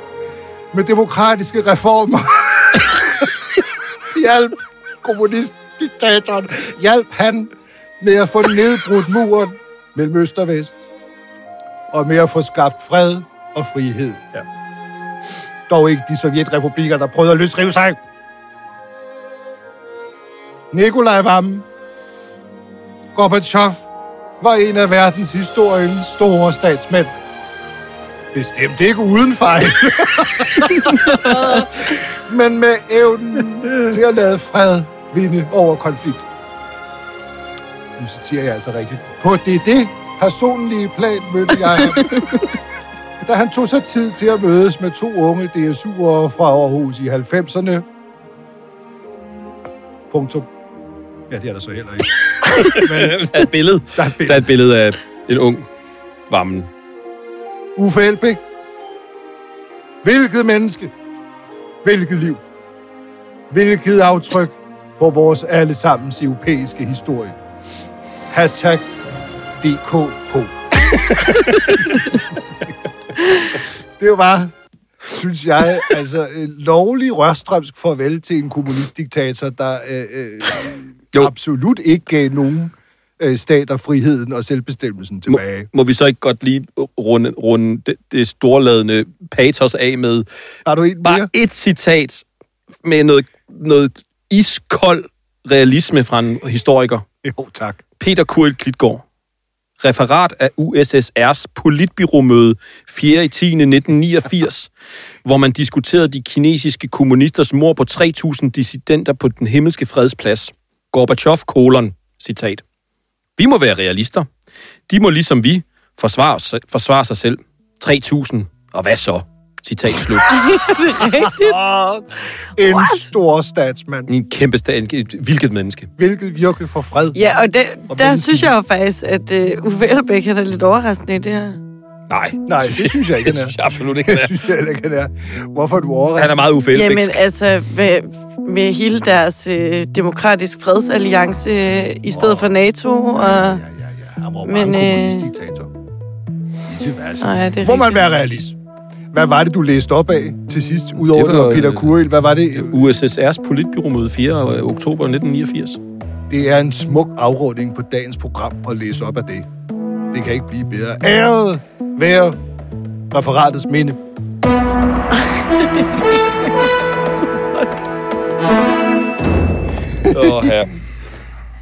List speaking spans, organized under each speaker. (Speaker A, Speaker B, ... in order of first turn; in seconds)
Speaker A: 0.7-3.3, 4.1-10.8, 11.9-14.2, 15.7-18.0, 20.7-21.6, 23.1-23.9, 24.4-27.1, 28.3-36.2, 38.0-42.1, 43.2-47.8, 50.1-50.5, 51.3-54.5, 57.8-58.4, 60.0-60.9, 61.8-62.4, 63.5-67.3, 68.3-68.9, 69.6-70.5, 74.0-74.5, 75.1-85.7, 90.6-91.3, 97.2-97.8, 121.0-124.1, 126.0-127.2, 127.9-128.5, 132.4-136.4, 142.1-142.5, 143.2-145.7, 146.7-148.6, 149.1-152.8, 156.3-159.5, 160.1-162.4, 163.1-164.0
Speaker B: 52.6-55.6, 56.3-56.7, 71.2-72.0, 85.3-90.2, 91.0-92.2, 92.8-97.0, 98.0-99.0, 99.8-104.7, 105.2-112.6, 113.4-114.3, 114.9-120.3, 124.1-125.9, 132.1-134.4, 136.2-137.2, 150.9-152.0, 152.5-155.8, 170.1-170.7
Speaker C: 120.3-121.6, 122.7-123.0, 127.1-131.6, 136.7-143.6, 144.4-145.3, 147.2-148.0, 165.6-166.1